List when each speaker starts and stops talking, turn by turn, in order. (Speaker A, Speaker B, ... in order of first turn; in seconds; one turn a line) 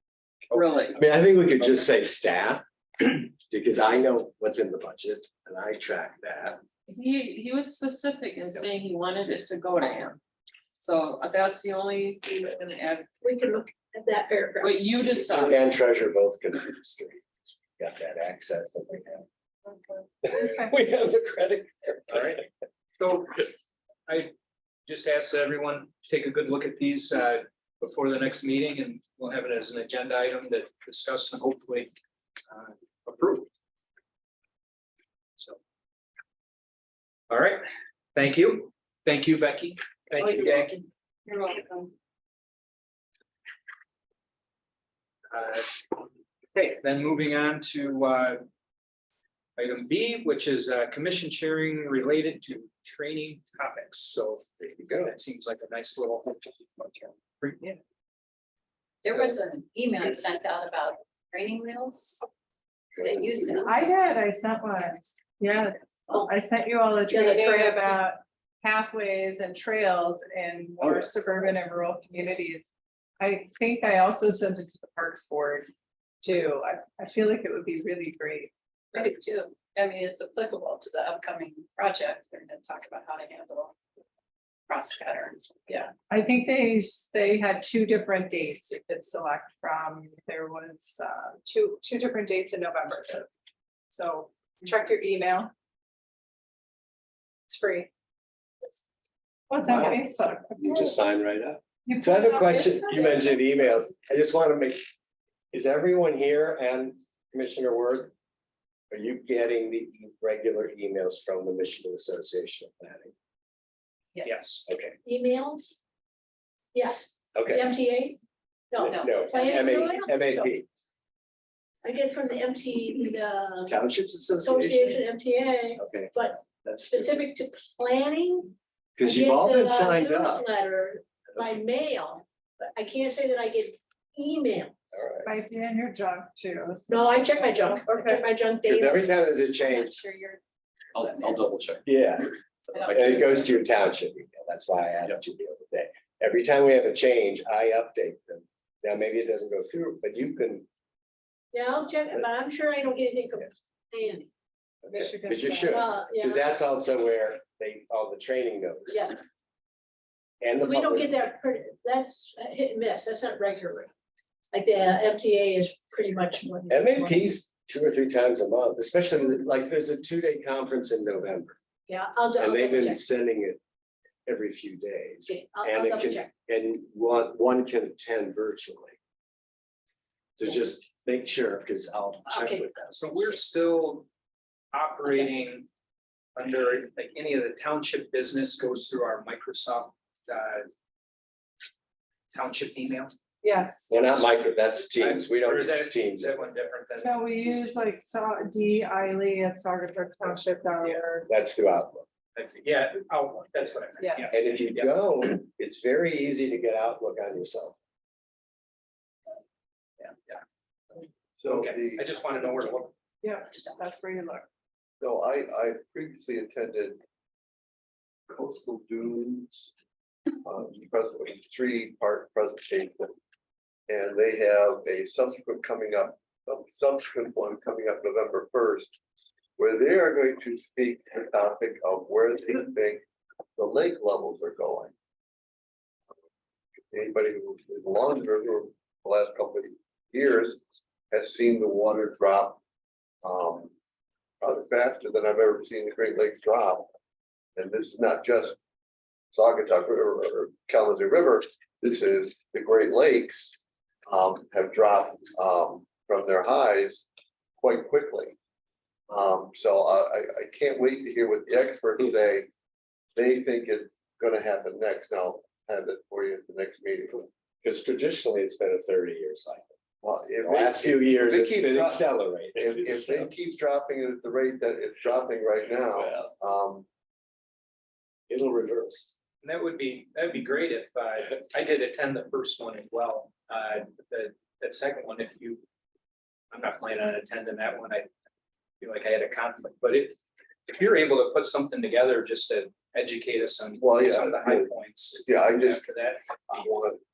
Speaker A: 0.5-1.0
Speaker B: 1.0-6.6
Speaker A: 6.9-10.2
Speaker A: 10.8-13.1
Speaker C: 13.2-14.8
Speaker A: 14.6-15.6
Speaker B: 15.4-17.2
Speaker B: 17.8-19.3
Speaker B: 20.2-22.3
Speaker D: 20.3-20.7
Speaker E: 22.1-22.4
Speaker E: 23.0-23.5
Speaker E: 24.1-24.3
Speaker E: 24.9-31.9
Speaker E: 32.5-33.5
Speaker E: 37.3-37.6
Speaker E: 38.1-40.8
Speaker A: 40.2-40.7
Speaker A: 41.3-41.9
Speaker E: 45.3-45.8
Speaker E: 46.6-48.4
Speaker E: 49.6-57.8
Speaker E: 59.1-59.4
Speaker F: 59.6-62.2
Speaker F: 63.0-63.5
Speaker D: 63.5-72.6
Speaker C: 67.1-68.0
Speaker D: 73.2-75.7
Speaker D: 76.2-78.5
Speaker F: 79.0-83.7
Speaker F: 84.7-85.8
Speaker D: 86.0-93.3
Speaker D: 93.9-95.5
Speaker D: 97.5-97.9
Speaker D: 99.5-100.9
Speaker B: 99.7-100.0
Speaker B: 100.6-104.8
Speaker D: 101.9-103.8
Speaker B: 105.5-108.1
Speaker B: 108.9-113.1
Speaker E: 114.2-114.7
Speaker B: 114.7-115.0
Speaker C: 115.0-115.8
Speaker C: 116.7-118.2
Speaker B: 117.3-117.7
Speaker C: 118.7-120.5
Speaker B: 118.8-120.8
Speaker C: 121.8-123.8
Speaker B: 123.7-125.0
Speaker C: 124.4-134.8
Speaker B: 125.8-127.2
Speaker B: 129.0-130.4
Speaker G: 134.9-135.3
Speaker D: 135.2-138.3
Speaker C: 136.9-140.0
Speaker B: 138.6-140.0
Speaker A: 141.0-141.8
Speaker B: 141.8-150.7
Speaker C: 151.5-154.3
Speaker D: 154.9-155.8
Speaker B: 154.9-159.1
Speaker C: 155.6-156.4
Speaker C: 158.9-159.2
Speaker B: 160.4-161.1
Speaker C: 160.6-163.9
Speaker C: 164.5-167.3
Speaker B: 166.7-171.6
Speaker C: 171.9-173.0
Speaker B: 172.4-173.6
Speaker B: 174.2-178.9
Speaker C: 175.3-176.3
Speaker B: 180.4-183.0
Speaker C: 182.3-182.6
Speaker E: 182.4-184.1
Speaker E: 184.7-185.7
Speaker E: 186.4-190.7
Speaker E: 192.3-193.2
Speaker D: 193.4-193.9
Speaker B: 193.9-196.4
Speaker E: 194.9-197.4
Speaker D: 197.0-201.3
Speaker B: 201.3-202.1
Speaker E: 202.3-204.9
Speaker D: 204.0-204.3
Speaker B: 204.3-207.8
Speaker G: 211.4-212.2
Speaker E: 211.5-212.9
Speaker D: 213.2-214.4
Speaker G: 215.0-217.0
Speaker G: 218.3-219.7
Speaker G: 220.4-223.1
Speaker G: 223.9-228.9
Speaker G: 229.6-233.0
Speaker G: 233.6-234.9
Speaker G: 236.9-242.6
Speaker G: 243.2-243.7
Speaker G: 244.4-246.9
Speaker G: 247.6-248.6
Speaker G: 249.3-253.6
Speaker G: 254.1-257.1
Speaker G: 257.6-258.4
Speaker G: 259.1-262.5
Speaker G: 263.1-267.3
Speaker B: 267.6-269.7
Speaker G: 270.0-276.9
Speaker B: 270.4-273.3
Speaker B: 275.9-276.3
Speaker B: 278.3-279.1
Speaker E: 279.4-285.6
Speaker E: 286.5-288.1
Speaker E: 288.8-296.6
Speaker G: 293.8-294.7
Speaker G: 295.2-295.8
Speaker G: 296.5-297.0